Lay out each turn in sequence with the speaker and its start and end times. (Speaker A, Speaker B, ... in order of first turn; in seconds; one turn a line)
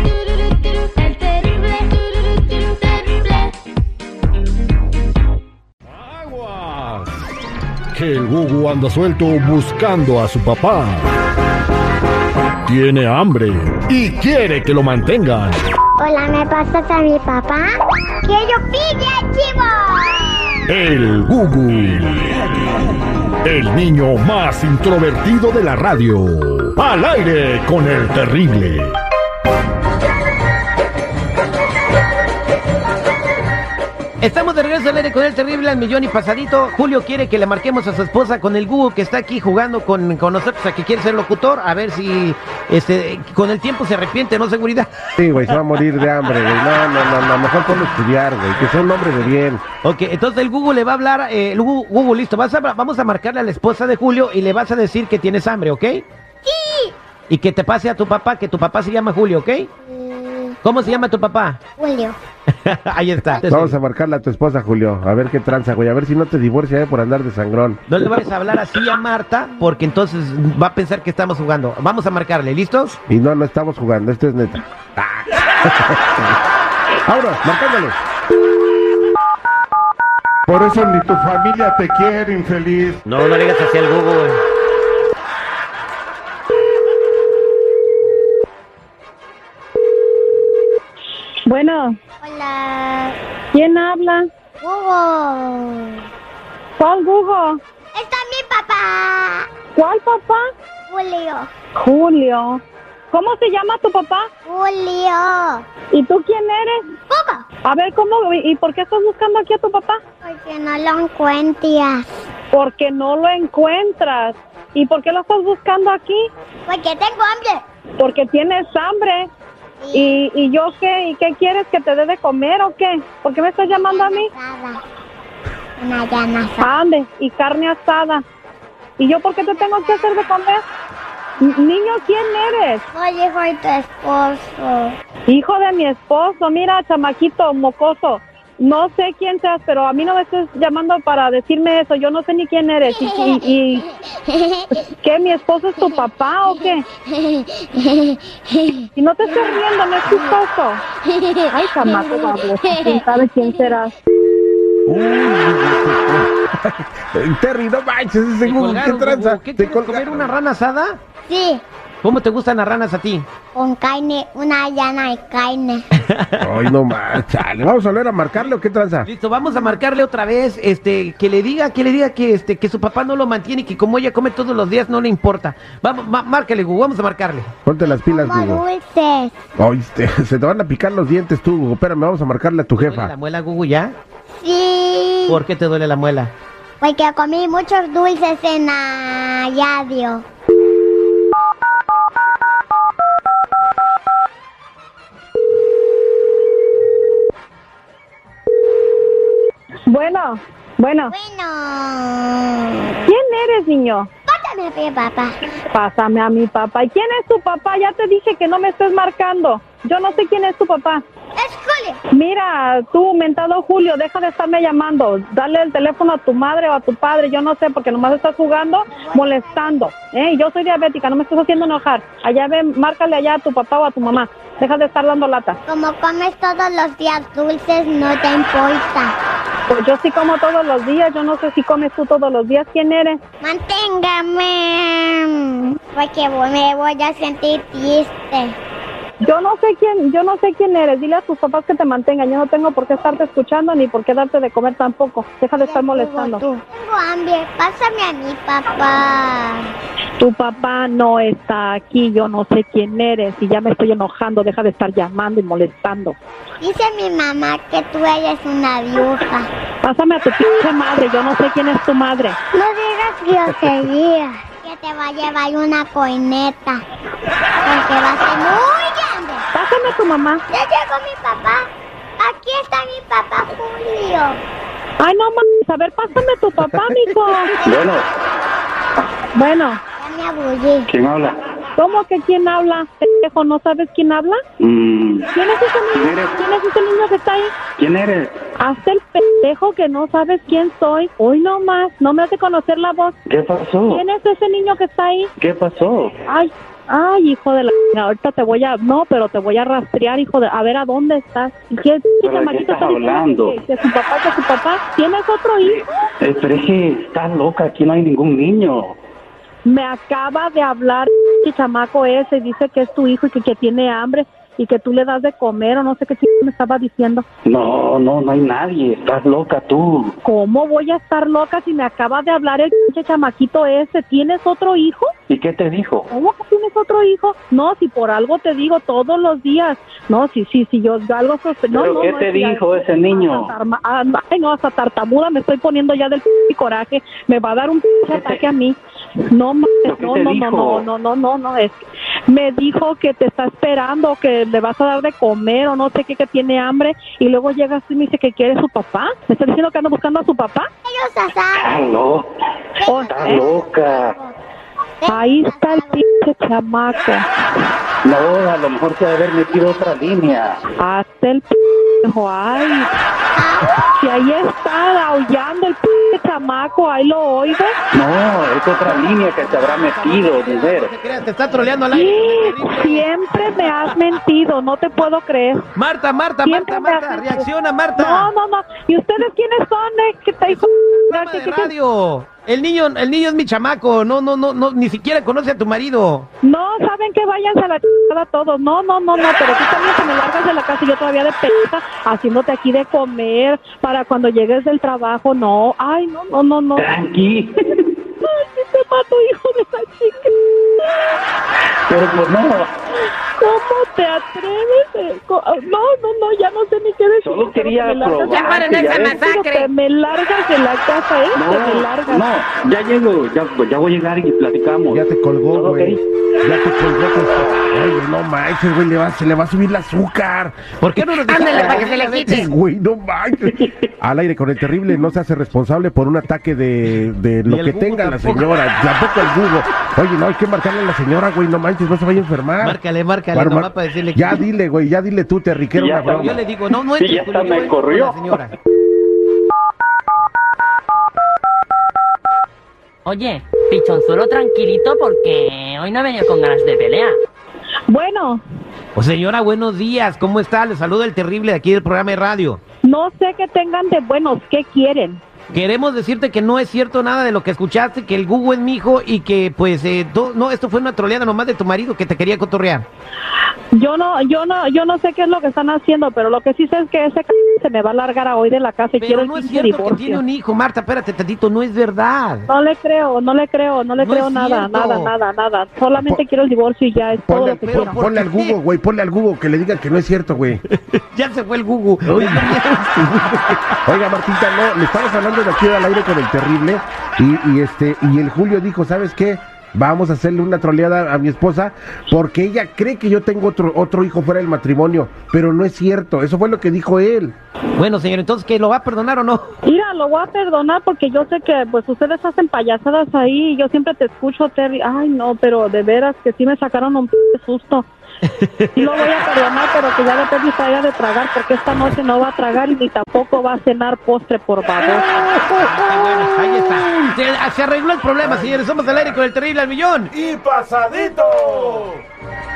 Speaker A: 2.4-2.7
Speaker B: 6.0-7.1
Speaker B: 7.9-11.1
Speaker B: 12.7-15.6
Speaker C: 16.0-17.7
Speaker C: 18.2-20.6
Speaker B: 20.7-22.4
Speaker B: 23.4-28.9
Speaker D: 34.2-44.9
Speaker E: 45.2-49.6
Speaker D: 48.6-49.3
Speaker D: 49.8-56.1
Speaker C: 56.5-56.9
Speaker D: 57.3-59.7
Speaker C: 59.8-60.6
Speaker D: 60.6-61.6
Speaker C: 61.8-62.2
Speaker D: 62.7-63.8
Speaker E: 63.4-67.8
Speaker D: 67.9-73.0
Speaker E: 73.1-76.3
Speaker E: 77.1-78.0
Speaker F: 80.5-83.0
Speaker D: 83.1-84.4
Speaker G: 91.5-92.0
Speaker C: 92.2-93.2
Speaker G: 93.5-94.3
Speaker C: 94.6-96.0
Speaker G: 96.8-97.6
Speaker C: 97.9-99.5
Speaker G: 99.8-100.5
Speaker C: 100.9-101.5
Speaker G: 101.8-104.3
Speaker C: 104.5-105.7
Speaker G: 105.9-106.8
Speaker C: 107.1-107.5
Speaker G: 107.7-110.0
Speaker C: 110.2-112.1
Speaker G: 112.5-116.3
Speaker C: 116.7-117.6
Speaker G: 118.0-119.3
Speaker C: 119.8-120.2
Speaker G: 119.9-124.3
Speaker C: 123.7-124.8
Speaker C: 125.8-126.7
Speaker G: 126.6-128.2
Speaker G: 129.0-130.6
Speaker C: 129.3-130.2
Speaker C: 131.4-135.0
Speaker G: 131.4-132.8
Speaker G: 135.3-143.9
Speaker C: 142.9-144.9
Speaker G: 145.0-146.8
Speaker C: 146.6-149.5
Speaker G: 149.0-150.8
Speaker C: 151.0-153.0
Speaker G: 151.5-153.9
Speaker E: 154.9-160.4
Speaker D: 158.4-161.0
Speaker C: 161.3-161.6
Speaker D: 162.0-163.3
Speaker C: 163.6-165.8
Speaker D: 166.1-166.7
Speaker E: 166.4-169.1
Speaker D: 168.3-177.5
Speaker C: 169.4-169.8
Speaker E: 177.7-178.6
Speaker C: 177.8-179.4
Speaker E: 179.6-183.1
Speaker D: 182.8-184.0
Speaker C: 184.3-185.4
Speaker D: 185.3-186.3
Speaker C: 186.8-190.2
Speaker G: 199.9-201.1
Speaker C: 201.1-203.0
Speaker G: 203.1-204.1
Speaker C: 204.3-205.4
Speaker G: 205.7-211.0
Speaker C: 211.4-212.0
Speaker G: 212.1-225.6
Speaker C: 218.9-219.8
Speaker C: 225.7-229.2
Speaker G: 229.7-233.2
Speaker C: 233.4-238.6
Speaker G: 239.2-246.4
Speaker C: 245.6-249.7
Speaker G: 250.2-256.2
Speaker C: 256.6-259.5
Speaker G: 259.8-262.4
Speaker C: 262.5-266.8
Speaker C: 267.6-269.4
Speaker G: 269.5-270.4
Speaker C: 270.5-271.7
Speaker C: 272.2-274.4
Speaker G: 275.0-277.5
Speaker H: 277.6-278.1
Speaker G: 279.4-279.8
Speaker C: 280.0-280.9
Speaker H: 280.9-281.4
Speaker G: 281.8-284.4
Speaker H: 284.6-285.3
Speaker G: 285.3-287.5
Speaker H: 285.9-286.4
Speaker H: 287.8-288.3
Speaker G: 288.6-293.2
Speaker H: 293.3-294.0
Speaker G: 293.9-295.3
Speaker H: 295.4-296.1
Speaker G: 296.3-305.9
Speaker H: 302.2-303.6
Speaker H: 305.6-309.0
Speaker G: 309.6-317.2
Speaker H: 317.5-320.1
Speaker G: 320.2-325.1
Speaker H: 325.3-326.1
Speaker G: 326.1-338.8
Speaker H: 331.7-333.5
Speaker H: 338.1-338.5
Speaker G: 339.3-350.7
Speaker H: 339.9-340.9
Speaker C: 350.9-351.8
Speaker H: 351.6-352.3
Speaker C: 352.8-354.4
Speaker G: 352.9-353.5
Speaker H: 352.9-354.2
Speaker C: 355.0-356.0
Speaker G: 355.1-357.2
Speaker H: 358.1-360.6
Speaker G: 360.8-362.9
Speaker C: 363.3-363.9
Speaker G: 363.9-367.7
Speaker H: 367.9-370.9
Speaker D: 368.9-373.1
Speaker G: 371.9-375.6
Speaker D: 375.8-378.3
Speaker G: 376.4-377.5
Speaker G: 378.0-381.7
Speaker D: 381.1-386.3
Speaker G: 386.4-396.9
Speaker H: 396.8-397.5
Speaker G: 398.2-401.1
Speaker H: 401.9-402.7
Speaker G: 403.4-412.2
Speaker H: 407.2-409.2
Speaker D: 408.3-409.7
Speaker H: 411.4-416.0
Speaker E: 414.9-420.7
Speaker D: 420.8-422.5
Speaker A: 421.3-422.5
Speaker H: 421.4-421.9
Speaker E: 422.1-432.8
Speaker D: 427.5-428.5
Speaker D: 432.6-434.4
Speaker E: 433.3-436.4
Speaker H: 435.8-436.4
Speaker D: 435.8-438.5
Speaker H: 436.9-438.4
Speaker A: 443.1-447.2
Speaker G: 447.9-448.4
Speaker D: 449.0-452.6
Speaker G: 452.8-455.2
Speaker D: 455.5-462.9
Speaker G: 463.7-470.2
Speaker D: 469.0-472.5
Speaker G: 472.5-477.9
Speaker D: 474.0-475.1
Speaker E: 476.0-476.2
Speaker E: 477.3-480.6
Speaker D: 477.6-478.6
Speaker D: 480.7-483.8
Speaker E: 482.1-482.6
Speaker E: 483.9-497.4
Speaker D: 497.8-499.5
Speaker G: 499.6-507.9
Speaker D: 508.4-509.1
Speaker G: 508.8-515.3
Speaker D: 515.5-520.1